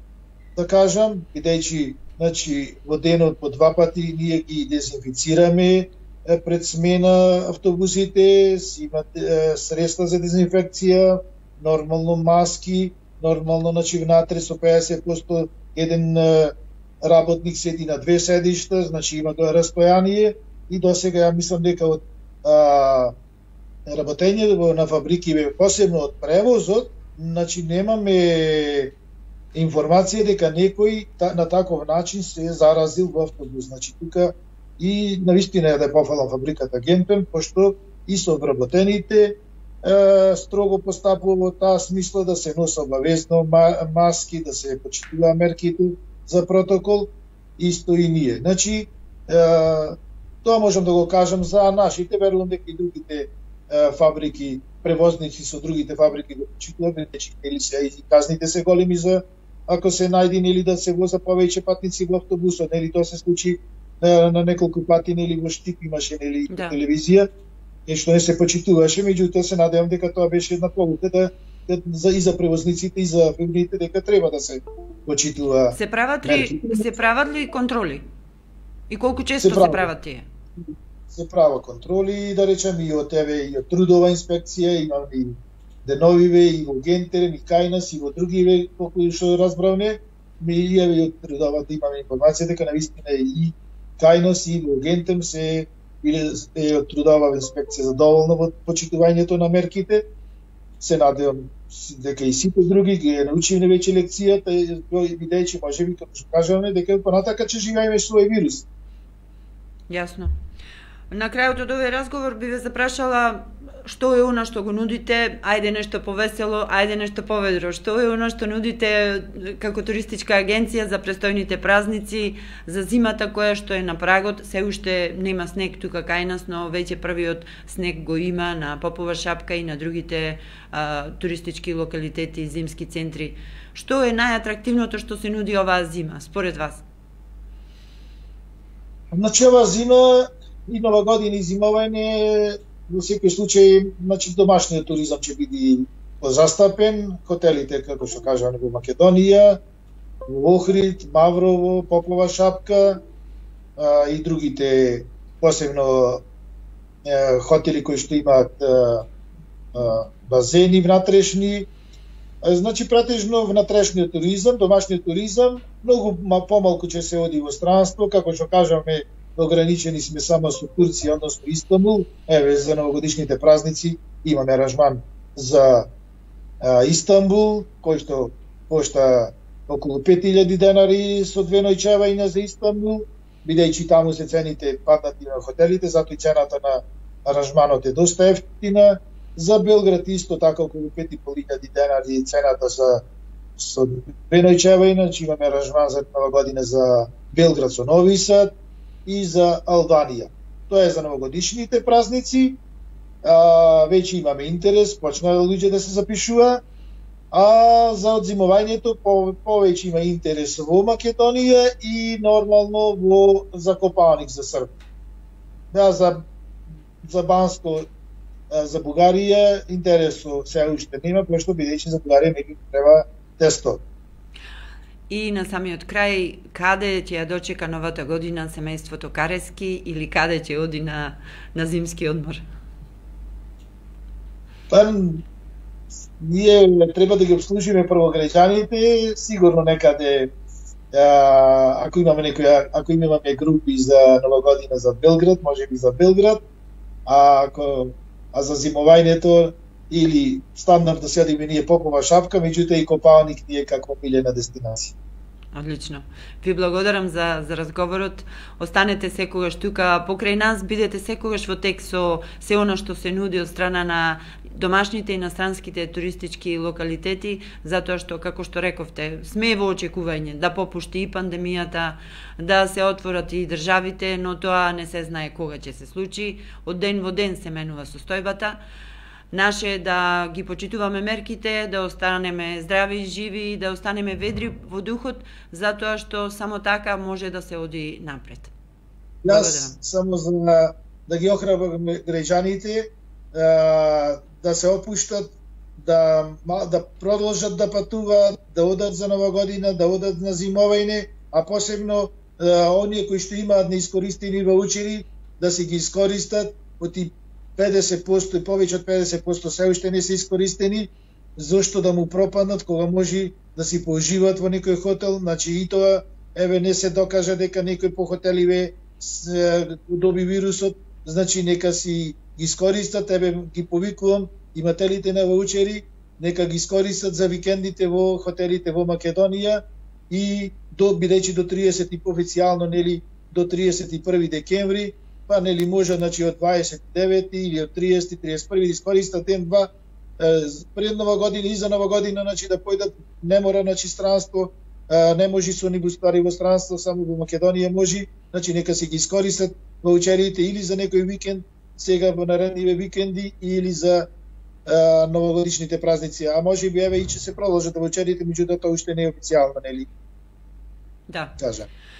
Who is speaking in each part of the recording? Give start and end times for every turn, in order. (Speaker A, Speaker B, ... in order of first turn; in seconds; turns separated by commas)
Speaker A: 0.6-23.1, Speaker A: 23.9-28.9, Speaker A: 29.5-67.3, Speaker B: 66.5-66.8, Speaker A: 67.9-76.8, Speaker B: 75.7-78.0, Speaker B: 78.9-80.3, Speaker A: 79.4-79.9, Speaker A: 81.1-100.0, Speaker A: 100.8-108.7, Speaker B: 109.9-110.3, Speaker B: 111.1-136.8, Speaker A: 139.1-149.6, Speaker A: 150.3-153.0, Speaker A: 153.8-156.2, Speaker A: 157.0-159.1, Speaker A: 159.7-161.7, Speaker A: 162.4-175.9, Speaker A: 176.6-193.0, Speaker A: 193.6-198.5, Speaker A: 199.1-202.6, Speaker A: 203.2-206.6, Speaker A: 207.3-214.7, Speaker A: 215.7-216.2, Speaker A: 217.0-217.9, Speaker A: 218.5-223.8, Speaker B: 225.1-232.4, Speaker A: 234.7-235.2, Speaker A: 236.2-240.3, Speaker A: 240.9-246.4, Speaker A: 247.1-254.9, Speaker B: 255.5-278.6, Speaker B: 279.3-288.5, Speaker A: 289.2-354.1, Speaker B: 289.2-289.8, Speaker A: 354.6-359.9, Speaker B: 361.1-361.4, Speaker A: 361.4-361.7